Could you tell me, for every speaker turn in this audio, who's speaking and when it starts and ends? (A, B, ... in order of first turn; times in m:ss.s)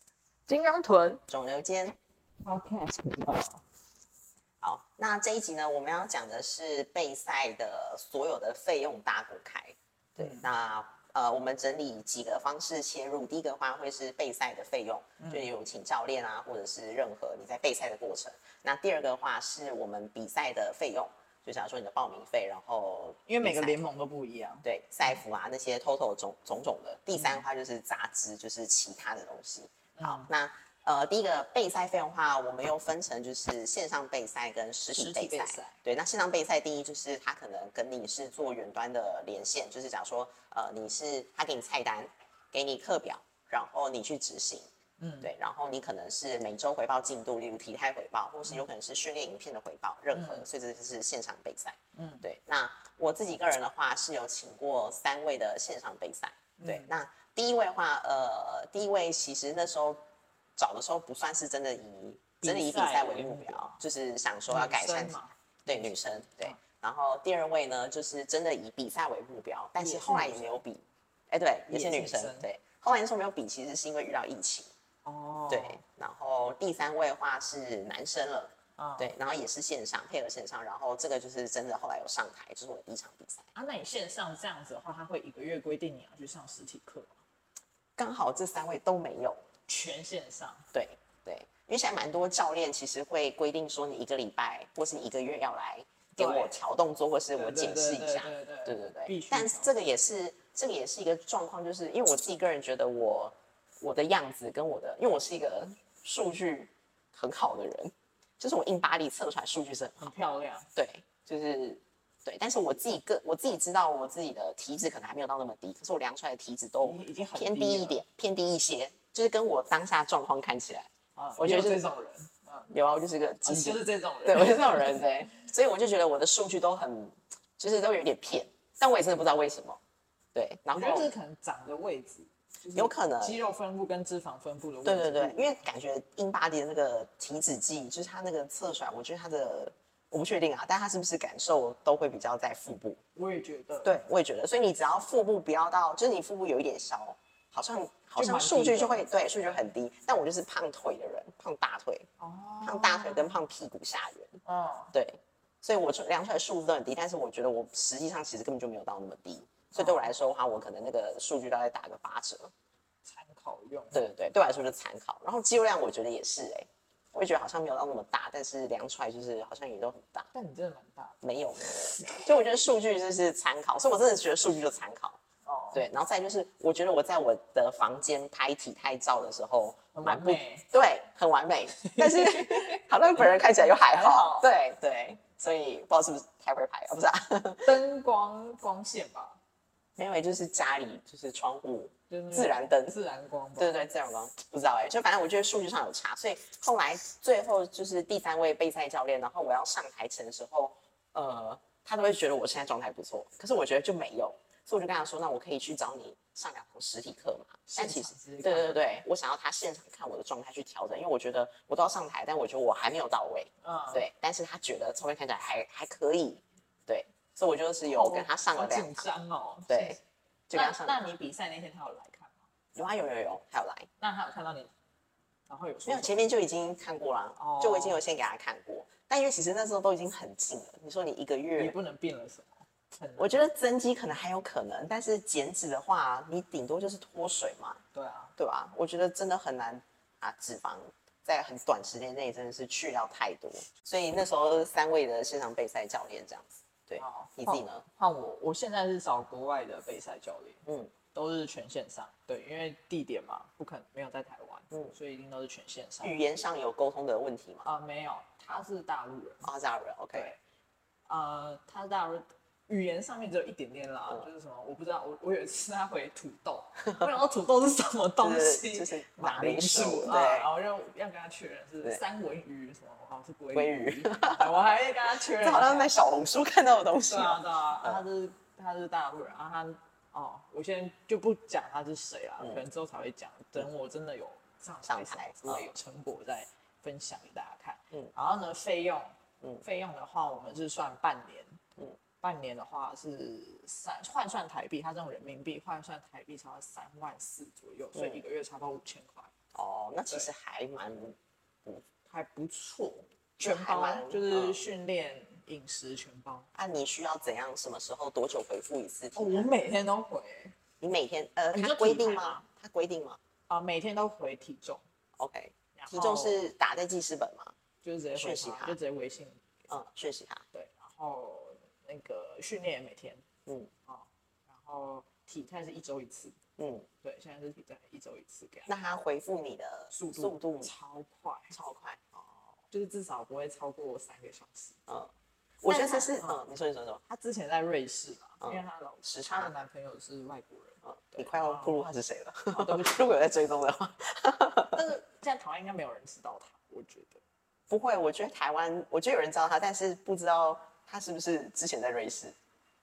0:00.5-0:01.2 A
0:01.3-0:02.0 B
0:02.4-0:03.6 A
0:04.6-0:23.8 B
0:10.2-0:10.5 A
0:15.2-0:15.5 A
0:23.3-0:25.2 A
0:24.6-0:44.7 B
0:27.2-0:27.5 A
0:30.0-0:30.3 A
0:35.0-0:35.8 A
0:45.0-0:45.3 A
0:45.2-1:00.0 B
0:50.1-0:50.4 A
0:52.0-0:52.2 A
0:56.6-0:56.9 A
1:00.6-1:14.7 B
1:02.4-1:03.8 A
1:04.5-1:06.6 A
1:09.8-1:10.6 A
1:11.7-1:12.5 A
1:15.0-1:15.8 A
1:15.5-1:23.5 B
1:18.8-1:19.1 A
1:23.6-1:27.2 A
1:28.0-1:29.4 B
1:29.7-1:30.7 A
1:30.7-1:50.1 B
1:36.2-1:36.6 A
1:37.4-1:39.8 A
1:50.0-1:50.7 A
1:50.8-2:01.8 B
1:56.8-1:58.0 A
2:01.2-2:02.7 A
2:02.7-2:09.8 B
2:03.4-2:05.0 A
2:10.4-2:11.1 B
2:10.7-2:15.6 A
2:12.8-2:13.4 B
2:14.8-2:23.0 B
2:23.2-2:24.0 A
2:23.8-2:32.1 B
2:28.2-2:29.7 A
2:32.2-2:33.4 A
2:32.6-2:34.4 B
2:34.4-2:34.9 A
2:34.9-2:42.5 B
2:39.8-2:40.1 A
2:43.0-2:44.0 A
2:43.9-2:50.3 B
2:50.3-2:52.4 A
2:51.2-2:55.2 B
2:55.4-2:55.8 A
2:55.7-3:07.8 B
2:59.9-3:00.7 A
3:01.8-3:04.5 A
3:07.6-3:09.4 A
3:10.0-3:13.0 B
3:12.1-3:13.9 A
3:13.6-3:39.1 B
3:27.7-3:29.0 A
3:33.6-3:34.1 A
3:37.9-3:40.0 A
3:39.7-3:40.0 B
3:40.5-3:41.0 B
3:40.5-3:42.5 A
3:42.8-3:43.9 B
3:44.0-3:44.7 A
3:45.5-3:46.3 A
3:45.9-3:51.8 B
3:47.4-3:48.0 A
3:51.6-3:53.5 A
3:53.2-3:57.8 B
3:57.9-3:58.3 A
3:58.4-4:07.8 B
4:07.0-4:16.2 A
4:10.7-4:10.9 B
4:16.0-4:17.7 B
4:17.6-4:19.5 A
4:19.4-4:20.3 B
4:20.1-4:20.4 A
4:21.1-4:36.1 A
4:28.2-4:30.5 B
4:33.6-4:38.0 B
4:37.0-4:51.6 A
4:44.9-4:45.7 B
4:52.2-4:59.3 A
4:58.0-4:58.2 B
4:59.5-5:01.8 B
5:02.1-5:06.5 A
5:03.4-5:04.7 B
5:06.5-5:09.5 B
5:09.2-5:10.6 A
5:10.8-5:13.2 B
5:11.5-5:12.4 A
5:13.5-5:14.8 A
5:15.2-5:17.5 B
5:15.8-5:16.4 A
5:17.8-5:19.4 A
5:18.2-5:18.8 B
5:19.7-5:20.5 B
5:20.5-5:23.2 A
5:23.9-5:26.4 A
5:26.6-5:26.9 B
5:27.0-5:28.7 A
5:28.7-5:30.7 B
5:29.9-5:31.5 A
5:31.5-5:32.6 B
5:32.7-5:34.8 A
5:35.6-5:37.0 B
5:35.7-5:36.4 A
5:37.1-5:41.8 A
5:38.4-5:39.5 B
5:40.8-5:44.8 B
5:42.5-5:43.2 A
5:44.7-5:47.2 A
5:47.7-5:52.4 B